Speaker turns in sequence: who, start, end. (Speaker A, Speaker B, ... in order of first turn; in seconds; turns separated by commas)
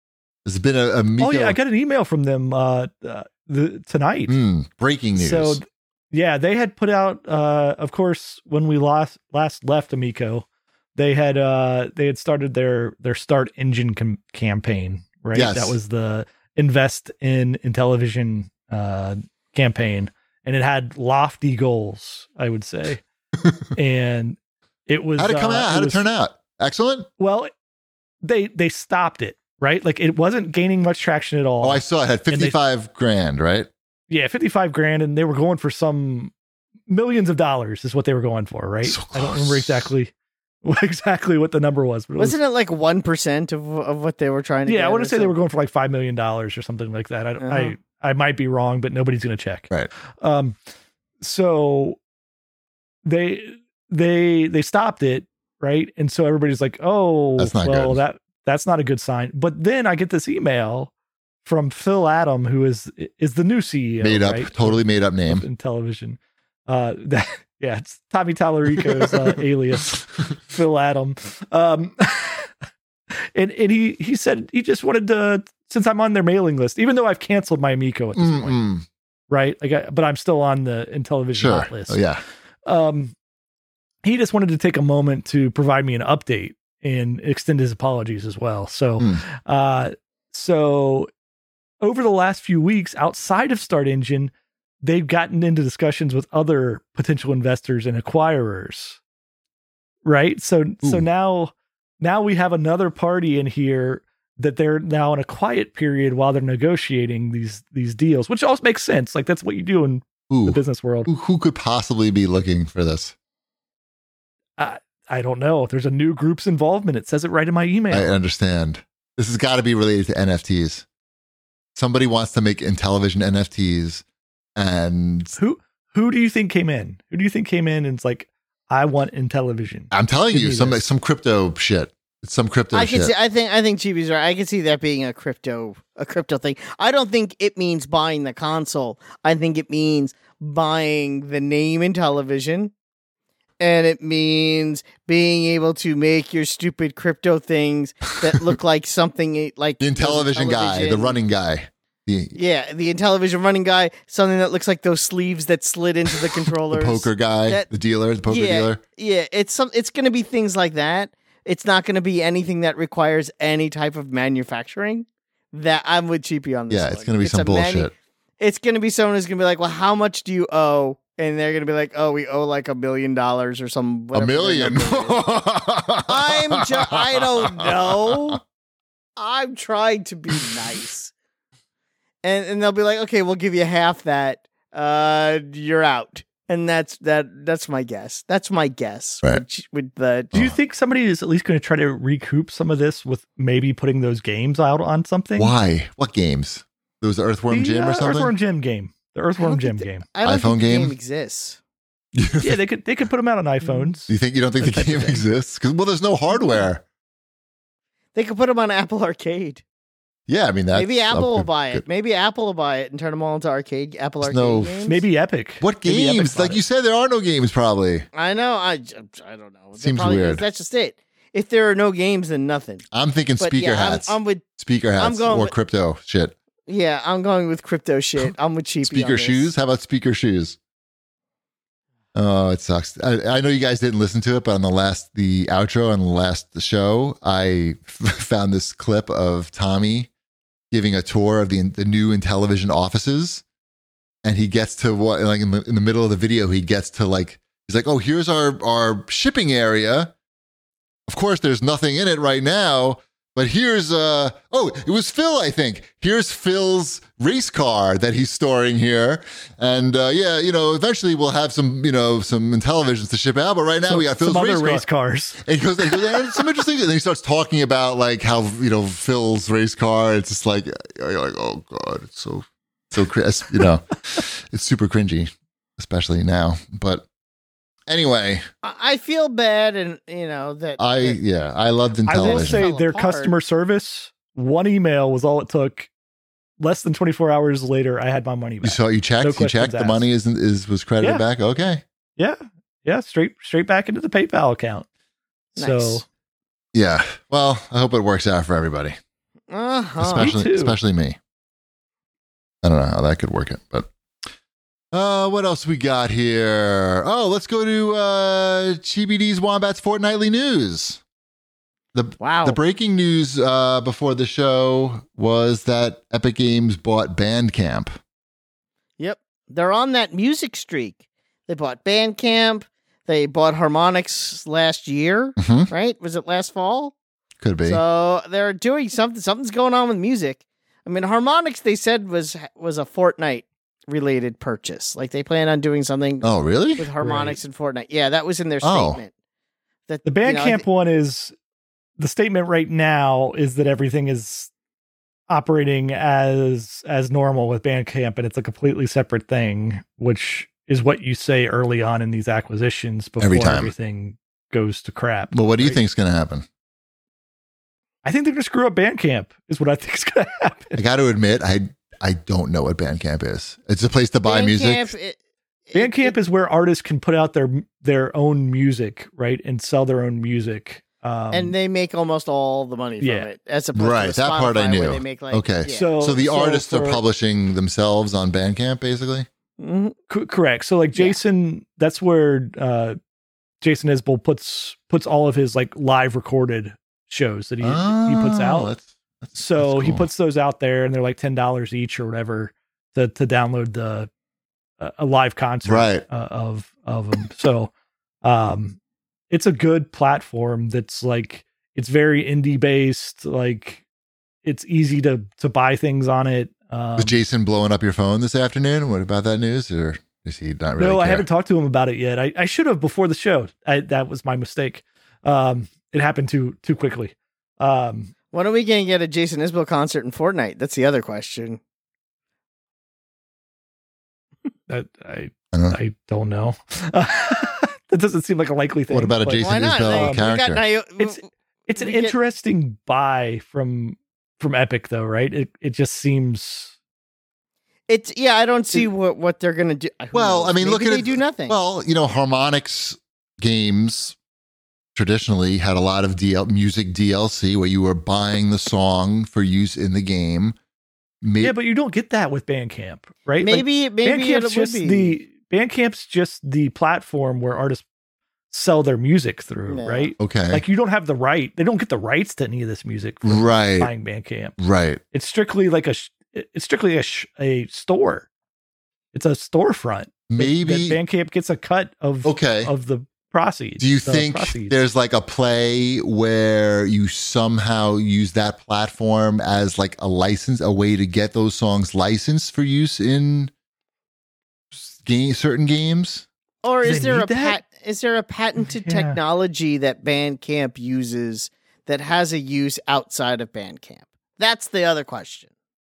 Speaker A: 0.4-1.6, Speaker B: 1.2-4.3, Speaker A: 4.3-5.6, Speaker B: 5.2-23.0, Speaker A: 15.3-15.8, Speaker B: 23.7-26.0, Speaker A: 25.2-27.1, Speaker B: 27.2-27.5, Speaker B: 28.2-32.5, Speaker A: 31.6-33.7, Speaker B: 34.1-36.3, Speaker B: 36.9-40.1, Speaker A: 38.8-39.9, Speaker B: 40.6-42.4, Speaker C: 42.2-45.3, Speaker B: 44.6-50.5, Speaker C: 47.4-47.7, Speaker B: 51.2-52.0, Speaker B: 53.0-60.9, Speaker A: 57.4-58.0, Speaker B: 61.4-72.5, Speaker A: 64.0-65.4, Speaker A: 68.8-69.2, Speaker B: 73.3-78.6, Speaker A: 78.2-78.8, Speaker B: 79.3-82.0, Speaker A: 81.3-82.2, Speaker B: 82.7-83.1, Speaker B: 84.0-91.1, Speaker B: 91.8-94.3, Speaker B: 94.8-99.0, Speaker B: 100.0-111.1, Speaker A: 110.3-113.1, Speaker B: 114.6-118.1, Speaker A: 117.9-120.8, Speaker A: 121.7-124.0, Speaker A: 124.5-125.3, Speaker B: 125.4-130.8, Speaker A: 129.9-133.1, Speaker C: 132.7-142.7, Speaker C: 143.6-151.2, Speaker A: 149.8-152.3, Speaker C: 152.3-157.7, Speaker A: 156.4-158.8, Speaker C: 158.2-175.2, Speaker A: 166.7-167.9, Speaker A: 174.1-178.4, Speaker C: 176.1-178.4, Speaker C: 179.2-181.1, Speaker C: 182.2-190.3, Speaker B: 190.3-195.5, Speaker A: 195.4-198.3, Speaker B: 197.5-200.1, Speaker C: 199.4-201.6, Speaker A: 200.2-200.9, Speaker A: 202.1-202.6, Speaker B: 202.4-205.2, Speaker C: 203.6-203.9, Speaker A: 204.1-206.8, Speaker C: 208.1-209.6, Speaker A: 210.3-211.8, Speaker C: 210.7-215.0, Speaker A: 214.2-214.8, Speaker B: 214.9-216.6, Speaker A: 215.6-218.1, Speaker C: 218.1-222.8, Speaker A: 219.8-220.4, Speaker A: 222.9-226.3, Speaker C: 223.4-224.4, Speaker C: 225.0-225.5, Speaker C: 226.7-229.5, Speaker A: 228.8-230.6, Speaker A: 232.1-240.1, Speaker A: 240.7-243.4, Speaker A: 244.2-250.1, Speaker A: 251.1-264.9, Speaker B: 263.9-266.4, Speaker A: 265.4-277.1, Speaker A: 277.9-278.4, Speaker C: 278.6-281.2, Speaker A: 280.8-282.7, Speaker B: 282.1-285.9, Speaker C: 282.2-283.3, Speaker B: 286.6-290.0, Speaker A: 288.6-291.8, Speaker B: 292.2-294.9, Speaker B: 295.6-296.0, Speaker C: 295.6-296.0, Speaker A: 296.7-299.0, Speaker C: 299.5-300.3, Speaker A: 300.0-301.2, Speaker B: 300.2-300.8, Speaker A: 302.6-303.9, Speaker A: 304.9-311.0, Speaker A: 311.9-318.0, Speaker C: 312.2-312.6, Speaker C: 319.0-326.9, Speaker A: 325.4-325.7, Speaker A: 327.4-327.8, Speaker C: 327.6-339.1, Speaker A: 336.2-336.9, Speaker B: 337.0-337.4, Speaker A: 338.6-339.0, Speaker C: 339.9-340.6, Speaker B: 340.0-341.3, Speaker B: 342.0-344.5, Speaker B: 345.3-355.8, Speaker A: 353.2-353.7, Speaker A: 355.3-356.4, Speaker B: 358.0-360.8, Speaker A: 360.8-364.9, Speaker C: 364.2-365.2, Speaker C: 365.7-366.1, Speaker B: 365.7-371.5, Speaker C: 371.3-375.9, Speaker B: 373.0-373.3, Speaker A: 373.7-379.3, Speaker B: 375.7-377.0, Speaker C: 379.6-379.9, Speaker B: 380.1-383.0, Speaker C: 380.9-381.2, Speaker B: 383.6-388.7, Speaker A: 387.6-390.1, Speaker B: 389.4-394.1, Speaker B: 394.8-397.7, Speaker A: 395.6-396.0, Speaker B: 398.2-398.8, Speaker B: 399.3-403.8, Speaker B: 404.4-407.2, Speaker A: 407.0-411.2, Speaker B: 410.8-418.1, Speaker C: 418.3-421.6, Speaker B: 424.7-430.2, Speaker A: 425.5-425.8, Speaker A: 428.9-430.6, Speaker C: 429.4-431.2, Speaker B: 431.0-436.7, Speaker C: 431.8-432.1, Speaker C: 437.9-441.6, Speaker A: 440.1-444.1, Speaker A: 444.9-450.5, Speaker A: 451.2-451.5, Speaker B: 451.4-457.8, Speaker C: 453.4-455.2, Speaker B: 458.5-464.6, Speaker C: 459.7-460.1, Speaker A: 460.2-460.6, Speaker A: 463.2-463.9, Speaker A: 464.6-465.0, Speaker B: 465.1-468.3, Speaker B: 469.1-474.8, Speaker A: 470.3-471.0, Speaker A: 472.2-472.7, Speaker A: 473.8-483.5, Speaker A: 484.7-486.2, Speaker C: 486.6-495.5, Speaker B: 486.8-487.6, Speaker B: 488.6-489.2